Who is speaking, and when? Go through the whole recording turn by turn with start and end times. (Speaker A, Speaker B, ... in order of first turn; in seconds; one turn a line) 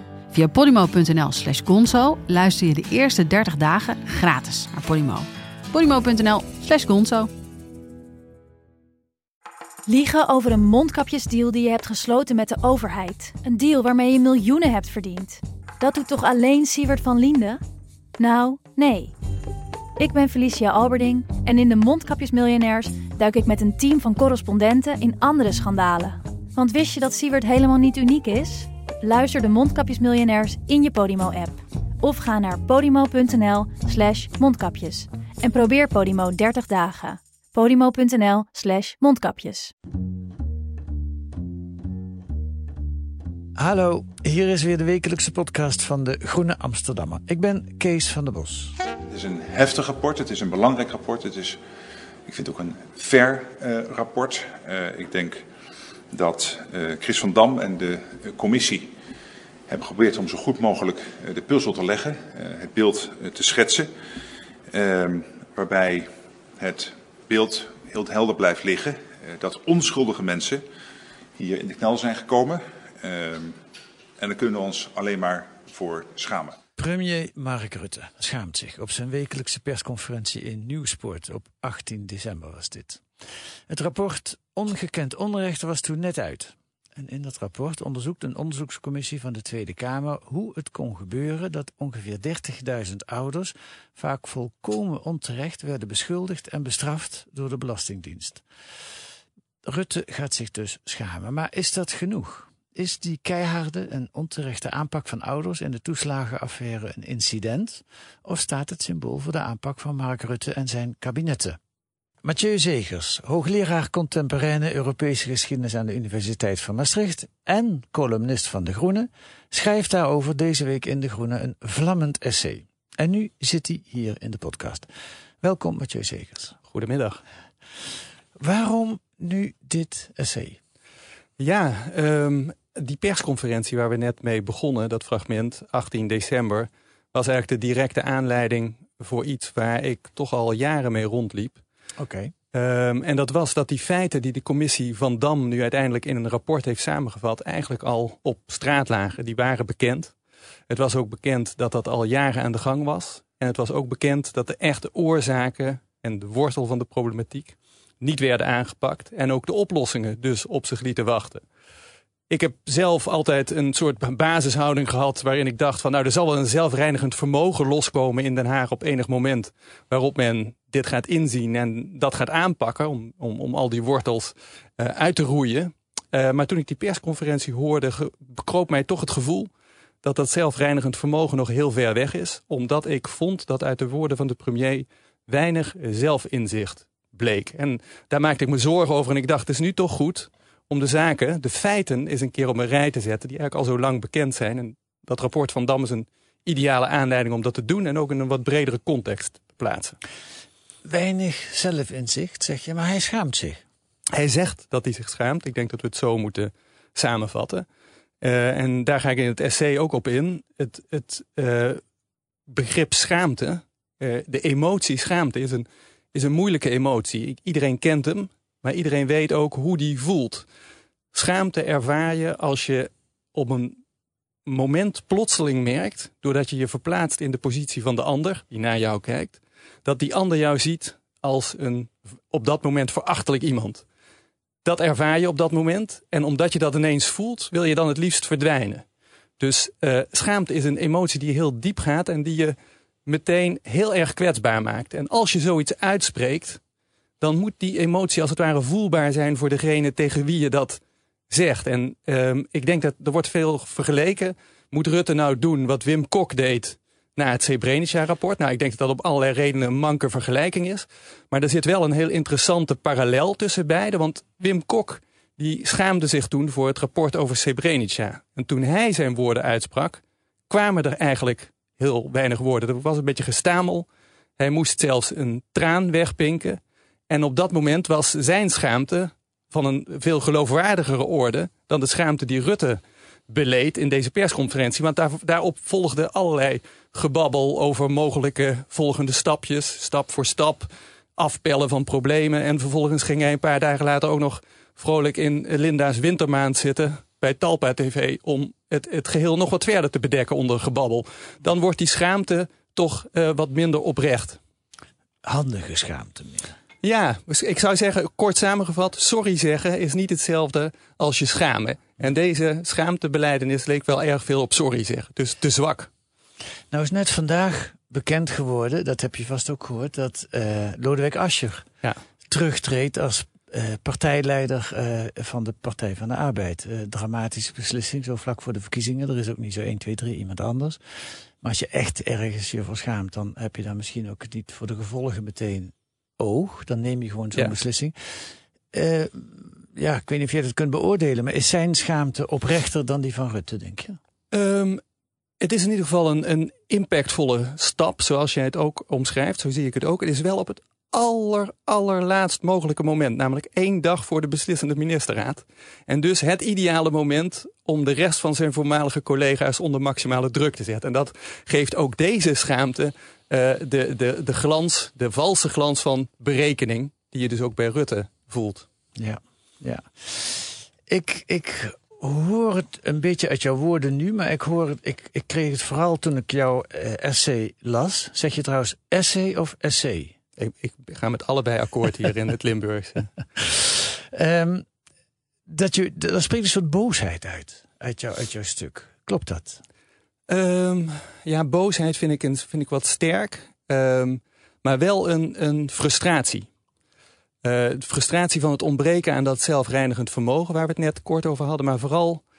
Speaker A: 0.3-7.3
Speaker B: 9.9-17.6
Speaker B: 18.2-19.1
Speaker B: 20.0-39.7
Speaker C: 43.5-48.8
Speaker D: 49.1-51.6
Speaker D: 52.2-55.4
Speaker D: 56.1-58.9
Speaker D: 59.7-63.9
Speaker D: 64.7-70.6
Speaker D: 71.4-73.6
Speaker D: 74.2-76.6
Speaker C: 76.8-83.0
Speaker C: 83.7-98.4
Speaker C: 99.6-111.6
Speaker C: 112.2-124.9
Speaker C: 125.4-126.5
Speaker E: 126.7-127.2
Speaker C: 128.4-130.6
Speaker E: 131.4-141.6
Speaker C: 142.0-142.3
Speaker E: 142.5-150.1
Speaker E: 150.7-161.4
Speaker E: 162.3-179.5
Speaker E: 180.0-200.0
Speaker C: 200.8-203.6
Speaker E: 204.1-207.6
Speaker E: 208.2-211.8
Speaker E: 212.5-220.4
Speaker E: 221.1-223.8
Speaker E: 224.4-233.8
Speaker E: 234.6-238.8
Speaker E: 239.4-242.5
Speaker E: 243.1-246.6
Speaker E: 247.2-273.9
Speaker E: 274.4-304.4
Speaker C: 305.2-306.5
Speaker E: 306.8-315.9
Speaker C: 316.7-321.7
Speaker C: 322.3-330.8
Speaker C: 331.4-344.0
Speaker E: 344.3-344.8
Speaker E: 345.4-368.6
Speaker C: 368.9-380.1
Speaker E: 380.4-383.1
Speaker C: 383.4-384.6
Speaker C: 385.5-389.6
Speaker E: 390.3-396.5
Speaker E: 397.4-402.2